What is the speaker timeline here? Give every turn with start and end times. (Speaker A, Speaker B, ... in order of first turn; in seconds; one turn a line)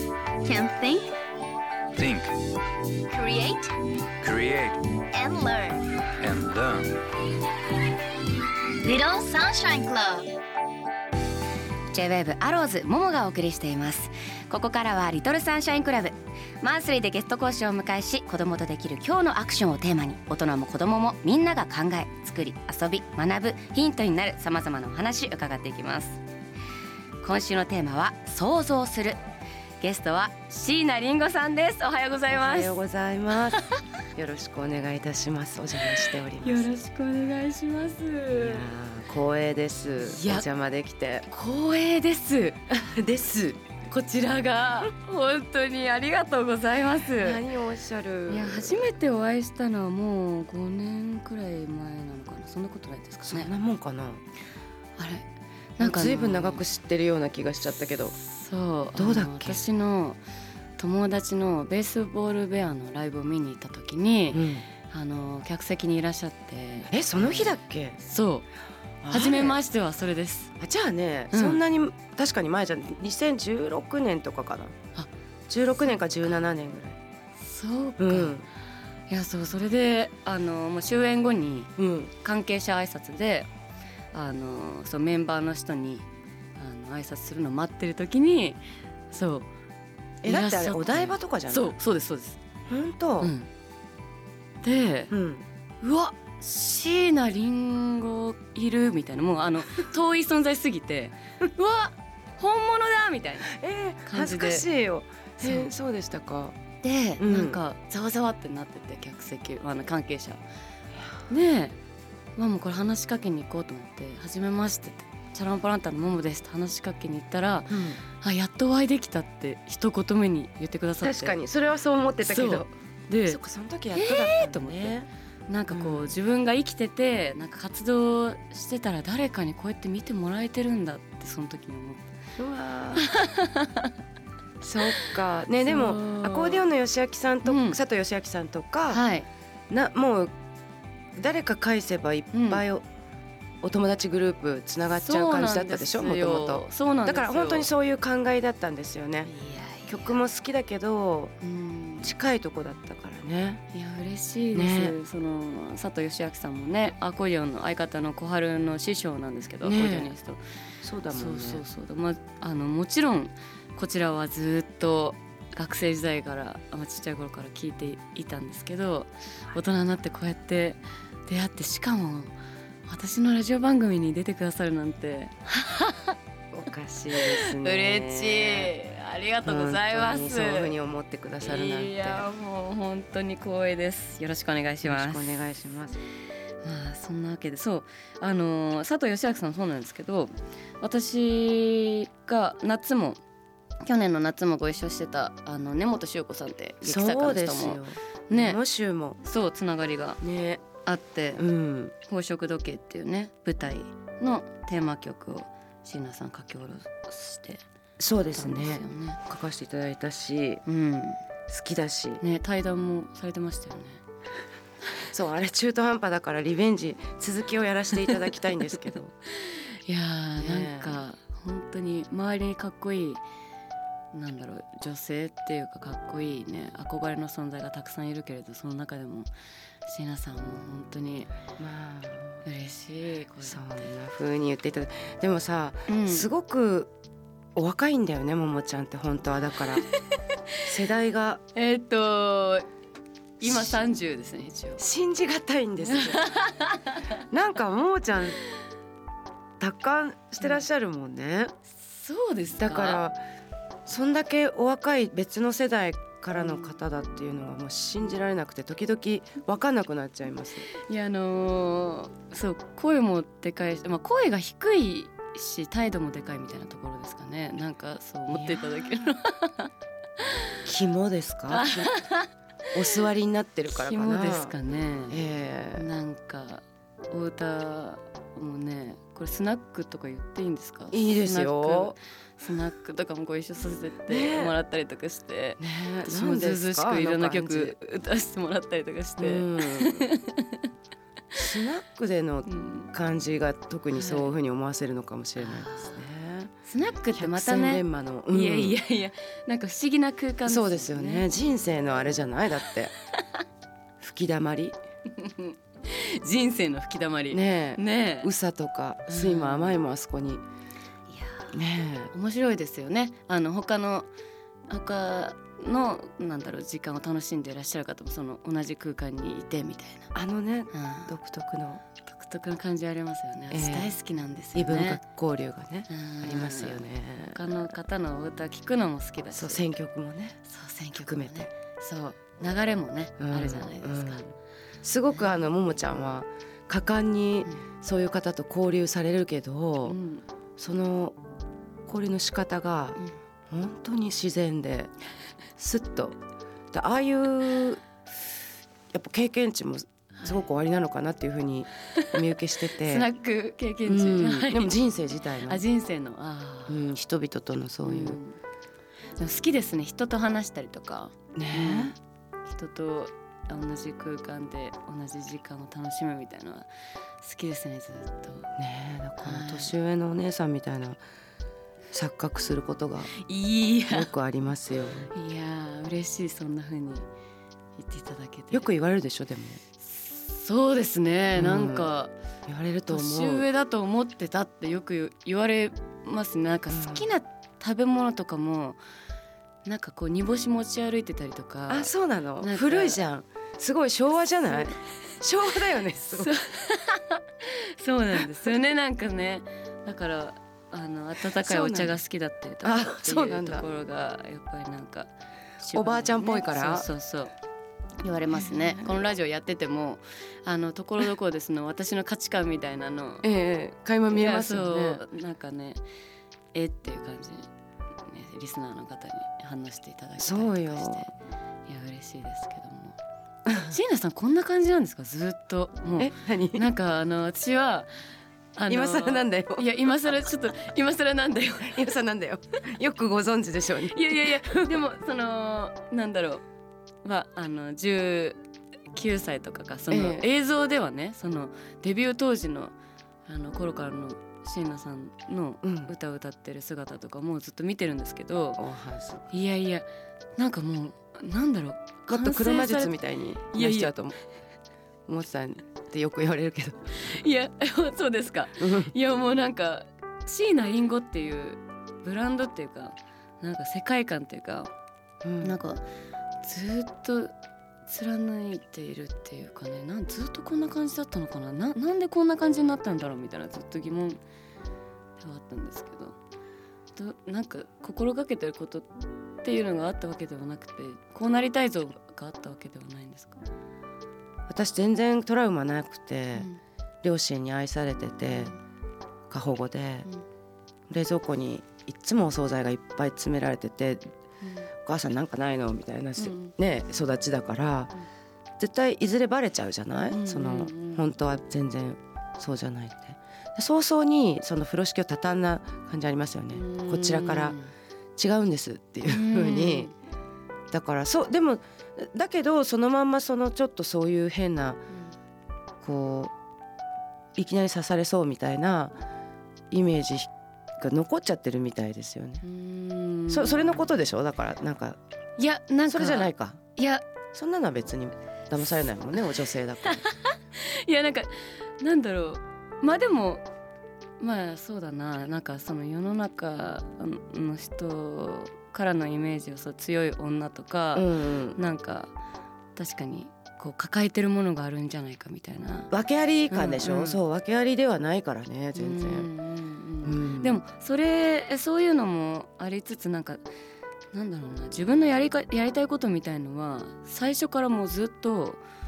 Speaker A: 0.4-1.2
Speaker B: 2.0-2.4
Speaker A: 3.1-3.8
Speaker B: 4.2-5.0
Speaker A: 5.0-6.1
Speaker B: 6.2-7.0
Speaker A: 8.8-10.3
Speaker C: 11.9-26.2
Speaker C: 27.2-29.2
Speaker C: 29.8-32.8
Speaker D: 32.3-33.6
Speaker C: 33.5-33.8
Speaker D: 34.1-36.7
Speaker C: 35.9-38.7
Speaker D: 38.3-41.3
Speaker C: 40.0-40.5
Speaker C: 41.3-42.6
Speaker D: 42.7-43.6
Speaker C: 43.9-47.4
Speaker D: 47.1-48.9
Speaker C: 48.3-53.5
Speaker D: 53.2-54.2
Speaker C: 55.0-55.3
Speaker C: 55.8-56.6
Speaker D: 55.8-58.2
Speaker C: 58.2-60.2
Speaker D: 59.0-59.7
Speaker C: 60.8-68.5
Speaker D: 64.3-64.7
Speaker D: 66.9-68.0
Speaker D: 69.0-69.6
Speaker C: 69.1-70.5
Speaker D: 70.6-74.8
Speaker C: 71.3-71.6
Speaker D: 75.5-77.0
Speaker C: 77.4-78.4
Speaker D: 78.0-78.5
Speaker C: 79.1-83.5
Speaker D: 81.8-82.1
Speaker C: 84.1-89.5
Speaker D: 90.2-91.8
Speaker C: 90.2-92.4
Speaker D: 92.7-93.3
Speaker C: 93.2-93.5
Speaker C: 94.6-95.1
Speaker D: 95.1-95.5
Speaker C: 95.8-103.5
Speaker D: 103.5-106.6
Speaker C: 104.1-104.7
Speaker C: 105.4-105.7
Speaker C: 106.8-110.4
Speaker D: 107.2-107.6
Speaker C: 111.3-111.8
Speaker C: 112.4-121.4
Speaker D: 117.7-118.0
Speaker D: 121.0-122.7
Speaker C: 122.2-123.4
Speaker D: 123.3-125.1
Speaker C: 123.9-125.0
Speaker C: 125.5-132.0
Speaker D: 125.7-126.2
Speaker D: 132.4-133.1
Speaker C: 133.0-133.9
Speaker D: 134.6-139.1
Speaker C: 135.6-136.7
Speaker C: 137.4-137.8
Speaker C: 138.9-139.3
Speaker D: 139.7-140.3
Speaker D: 141.2-142.8
Speaker C: 142.3-142.6
Speaker D: 143.6-149.3
Speaker C: 144.9-147.7
Speaker C: 149.3-150.2
Speaker D: 149.9-151.3
Speaker C: 151.4-152.1
Speaker D: 152.0-153.6
Speaker C: 153.7-160.4
Speaker D: 154.5-155.0
Speaker D: 159.6-160.1
Speaker D: 160.8-161.7
Speaker C: 161.1-172.3
Speaker C: 172.9-176.2
Speaker D: 176.5-178.7
Speaker C: 177.1-180.8
Speaker D: 179.4-182.3
Speaker C: 181.4-185.4
Speaker D: 184.8-186.0
Speaker C: 186.6-193.2
Speaker C: 193.8-198.6
Speaker D: 196.8-199.2
Speaker C: 199.2-200.2
Speaker D: 200.2-200.6
Speaker C: 200.8-201.4
Speaker D: 201.4-201.9
Speaker C: 202.1-207.6
Speaker D: 208.0-210.6
Speaker C: 208.3-209.2
Speaker C: 210.7-211.2
Speaker D: 211.5-212.2
Speaker C: 212.2-214.0
Speaker D: 215.1-219.1
Speaker C: 218.8-223.2
Speaker D: 220.4-221.0
Speaker C: 224.1-229.3
Speaker C: 229.8-231.3
Speaker D: 231.6-232.5
Speaker C: 232.4-233.8
Speaker D: 233.4-236.9
Speaker C: 235.9-236.3
Speaker D: 237.6-239.9
Speaker D: 240.6-241.4
Speaker C: 241.5-242.7
Speaker C: 243.4-244.8
Speaker D: 243.4-243.8
Speaker D: 244.8-246.2
Speaker C: 245.8-247.2
Speaker D: 247.1-248.4
Speaker D: 249.6-251.5
Speaker C: 251.7-253.0
Speaker D: 252.6-253.2
Speaker D: 253.9-260.7
Speaker C: 256.4-256.7
Speaker C: 260.8-270.6
Speaker D: 268.3-269.0
Speaker D: 270.6-271.9
Speaker C: 271.5-273.0
Speaker D: 272.7-274.6
Speaker C: 273.7-275.2
Speaker D: 275.1-275.9
Speaker C: 275.8-290.7
Speaker D: 280.9-282.0
Speaker D: 284.1-284.6
Speaker D: 285.6-287.8
Speaker D: 289.2-290.1
Speaker D: 291.3-296.5
Speaker C: 292.5-292.9
Speaker C: 293.9-294.3
Speaker C: 295.4-296.0
Speaker C: 296.6-301.3
Speaker D: 297.1-298.8
Speaker D: 300.5-302.9
Speaker D: 304.0-304.8
Speaker C: 305.1-308.3
Speaker D: 307.3-310.4
Speaker C: 309.1-309.8
Speaker C: 311.1-311.6
Speaker D: 311.5-312.1
Speaker C: 312.1-314.1
Speaker C: 314.7-320.1
Speaker D: 320.1-321.8
Speaker C: 320.7-321.1
Speaker C: 322.0-325.0
Speaker D: 323.5-323.9
Speaker D: 324.5-327.6
Speaker C: 325.9-329.7
Speaker D: 329.3-330.4
Speaker C: 330.4-334.2
Speaker D: 331.0-331.5
Speaker D: 333.2-340.0
Speaker C: 339.8-340.2
Speaker D: 340.6-341.2
Speaker D: 341.9-344.9
Speaker D: 345.6-346.1
Speaker D: 346.7-347.9
Speaker D: 348.9-353.1
Speaker C: 352.8-354.8
Speaker D: 353.9-355.6
Speaker C: 355.4-356.9
Speaker D: 356.7-358.2
Speaker C: 357.8-358.4
Speaker C: 359.2-366.7
Speaker D: 361.4-362.0
Speaker C: 367.2-368.5
Speaker D: 368.6-371.0
Speaker C: 369.2-369.8
Speaker D: 371.9-373.1
Speaker C: 373.1-374.1
Speaker D: 373.9-375.1
Speaker C: 375.1-377.1
Speaker C: 377.8-378.7
Speaker D: 378.5-379.6
Speaker C: 379.8-382.1
Speaker D: 381.4-381.9
Speaker D: 382.5-383.5
Speaker C: 382.9-388.8
Speaker D: 386.7-387.1
Speaker C: 389.6-393.0
Speaker D: 391.7-396.4
Speaker C: 396.0-407.3
Speaker D: 401.2-402.0
Speaker D: 402.6-403.7
Speaker D: 405.7-406.9
Speaker C: 408.0-413.3
Speaker D: 408.3-409.0
Speaker D: 413.2-415.0
Speaker C: 414.1-415.8
Speaker C: 416.5-417.5
Speaker C: 418.1-421.1
Speaker D: 420.2-421.1
Speaker C: 421.7-423.0
Speaker C: 423.5-427.9
Speaker D: 426.0-426.7
Speaker C: 428.6-431.9
Speaker D: 428.7-430.1
Speaker D: 431.6-434.9
Speaker C: 433.8-436.4
Speaker C: 437.0-438.4
Speaker C: 438.9-442.8
Speaker D: 439.9-440.3
Speaker C: 443.3-448.6
Speaker D: 445.6-445.9
Speaker D: 448.6-449.3
Speaker C: 449.3-452.9
Speaker D: 452.1-454.2
Speaker C: 453.5-453.9
Speaker D: 455.1-457.1
Speaker C: 456.9-464.7
Speaker D: 458.6-458.9
Speaker D: 465.2-465.6
Speaker C: 465.4-465.9
Speaker C: 466.4-467.3
Speaker C: 467.9-474.2
Speaker C: 475.2-476.2
Speaker C: 476.9-483.4
Speaker D: 484.5-486.5
Speaker C: 486.4-486.6
Speaker D: 487.0-488.5
Speaker C: 488.3-488.6
Speaker D: 489.3-490.1
Speaker D: 490.9-494.1
Speaker C: 494.4-494.7
Speaker D: 494.9-497.9
Speaker C: 496.2-496.5
Speaker D: 498.6-507.6
Speaker C: 500.1-501.1
Speaker C: 506.5-507.7
Speaker D: 508.2-509.9
Speaker C: 509.1-509.9
Speaker D: 510.7-514.8
Speaker D: 515.8-516.3
Speaker D: 517.4-519.0
Speaker D: 519.7-522.4
Speaker C: 522.4-523.9
Speaker D: 523.3-525.0
Speaker C: 525.4-527.0
Speaker D: 525.9-526.6
Speaker D: 527.3-530.0
Speaker C: 529.9-533.5
Speaker C: 534.2-542.1
Speaker D: 540.9-541.6
Speaker C: 542.8-545.9
Speaker D: 545.9-549.3
Speaker C: 546.5-547.2
Speaker C: 548.8-553.4
Speaker D: 550.0-550.6
Speaker C: 554.1-558.6